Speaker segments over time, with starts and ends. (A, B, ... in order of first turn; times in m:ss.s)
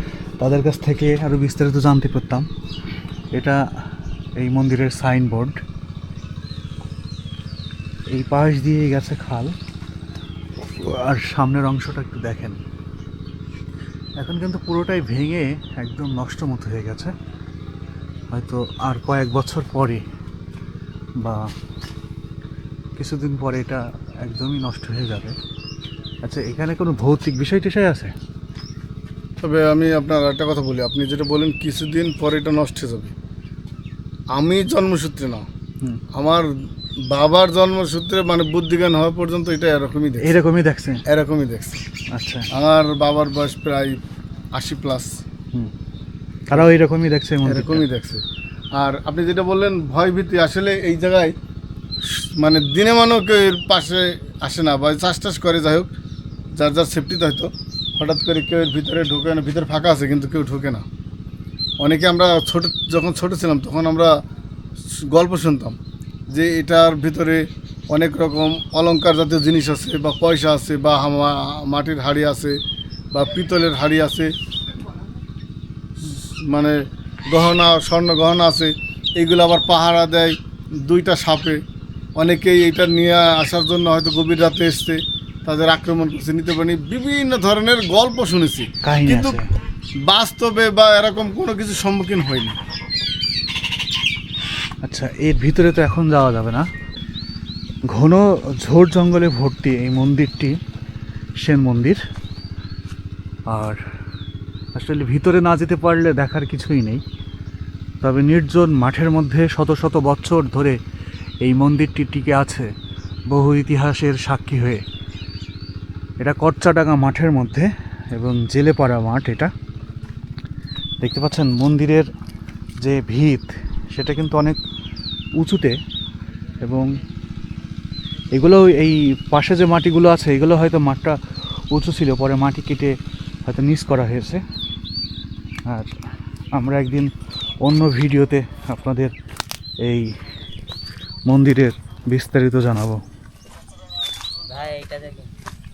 0:00.4-0:02.5 A
0:03.3-0:03.6 A
0:04.4-0:05.6 A
0:08.1-0:09.6 A
0:10.6-0:12.6 A
0:14.2-0:17.1 A
0:18.3-0:20.0 A
0:21.2-0:21.5 A
0:23.0-0:25.4 A
0:26.2-0:28.1 A
0:29.4-0:33.1 B
0:34.3-0:35.5 B
0:36.1-0:36.5 B
0:37.1-0:40.4 B
0:40.2-0:41.0 A
0:41.1-0:41.8 B
0:42.1-0:42.5 A
0:42.5-0:44.0 B
0:44.5-0:45.1 B
0:46.5-0:47.8 A
0:47.4-0:48.2 B
0:48.8-0:51.3 B
0:52.0-0:55.9 B
0:56.6-1:00.8 B
1:01.8-1:04.1 B
1:05.1-1:05.8 B
1:06.3-1:12.6 B
1:13.1-1:14.3 B
1:16.0-1:21.6 B
1:22.2-1:29.4 B
1:28.8-1:29.5 A
1:30.1-1:32.6 B
1:34.8-1:36.7 A
1:37.9-1:40.6 A
1:41.4-1:42.0 A
1:43.5-1:43.8 A
1:44.8-1:47.0 A
1:48.0-1:50.8 A
1:51.4-1:52.7 A
1:53.3-1:54.8 A
1:56.2-1:59.5 A
2:01.0-2:02.1 A
2:02.8-2:04.6 A
2:05.4-2:05.8 A
2:06.6-2:07.0 A
2:08.3-2:11.2 A
2:11.7-2:14.4 A
2:16.5-2:19.1 A
2:19.8-2:20.1 A
2:21.3-2:23.0 A